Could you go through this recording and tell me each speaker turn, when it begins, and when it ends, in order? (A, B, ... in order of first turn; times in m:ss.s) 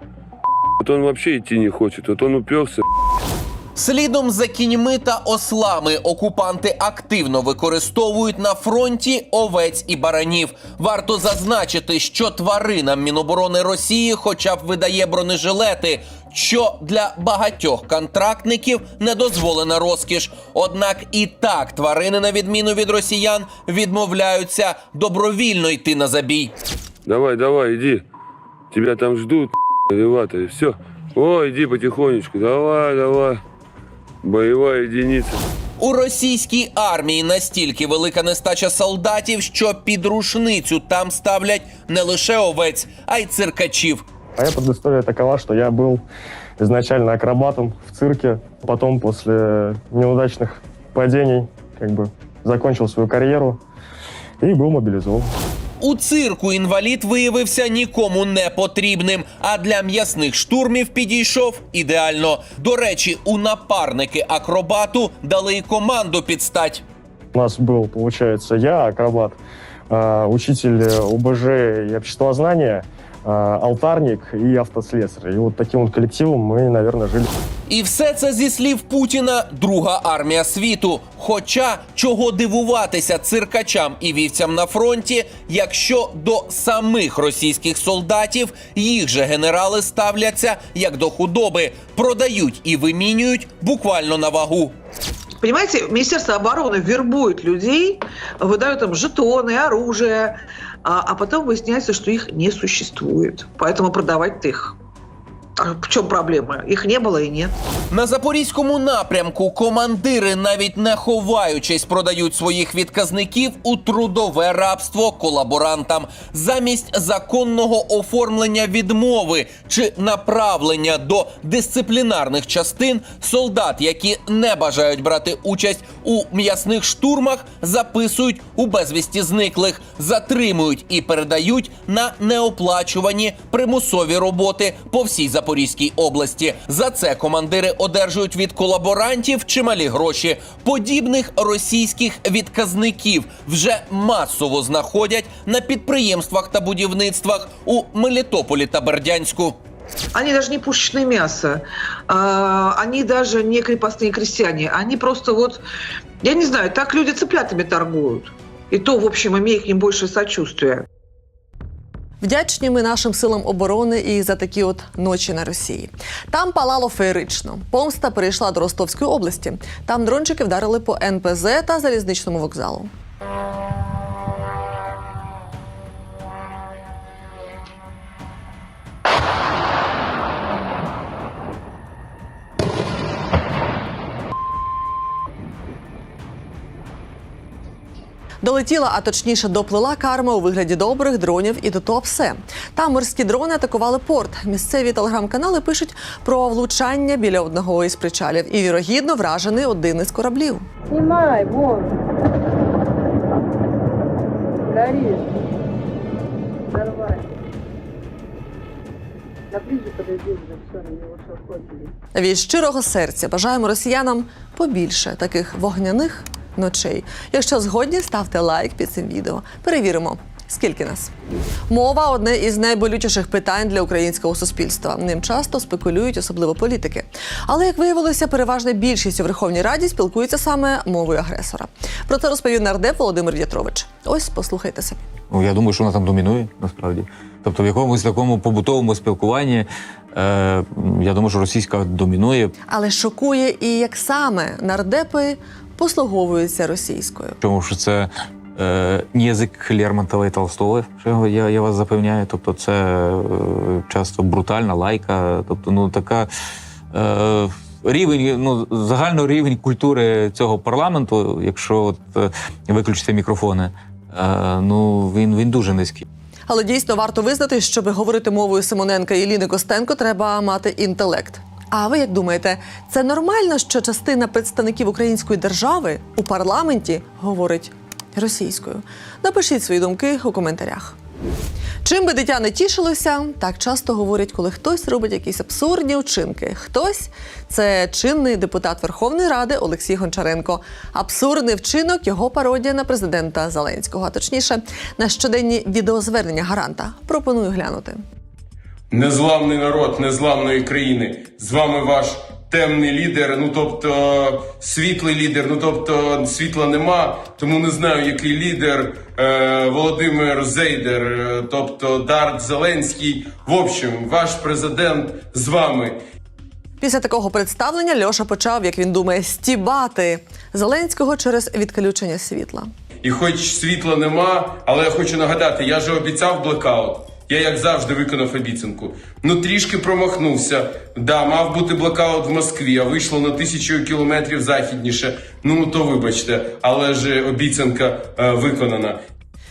0:00.8-0:02.8 A
0:03.8-0:26.5 B
0:27.0-0:28.0 A
0:28.7-0:33.4 A
0:34.2-0:35.4 A
0:35.8-0:44.0 B
0:44.4-0:46.0 C
0:46.6-0:53.6 C
0:54.4-0:55.3 C
0:55.8-1:06.8 B
1:07.3-1:09.4 C
1:09.9-1:17.3 C
1:17.7-1:34.7 B
1:35.4-1:44.8 D
1:45.6-1:47.5 D
1:47.9-2:29.6 B
2:30.1-2:35.6 D
2:36.2-2:40.8 D
2:42.2-2:52.9 E
3:08.4-3:20.7 E
3:20.9-3:22.0 F
3:24.6-3:25.3 F
3:26.7-3:27.3 F
3:29.5-3:31.9 F
3:32.1-3:41.1 E
3:41.7-3:55.0 E
3:55.3-4:02.5 G
4:02.7-4:07.4 E
4:07.4-4:16.3 G
4:16.9-4:26.0 G
4:26.5-4:41.0 E
4:41.8-4:58.0 E
4:58.9-5:16.0 H
5:16.8-5:22.7 E
5:23.0-5:39.0 H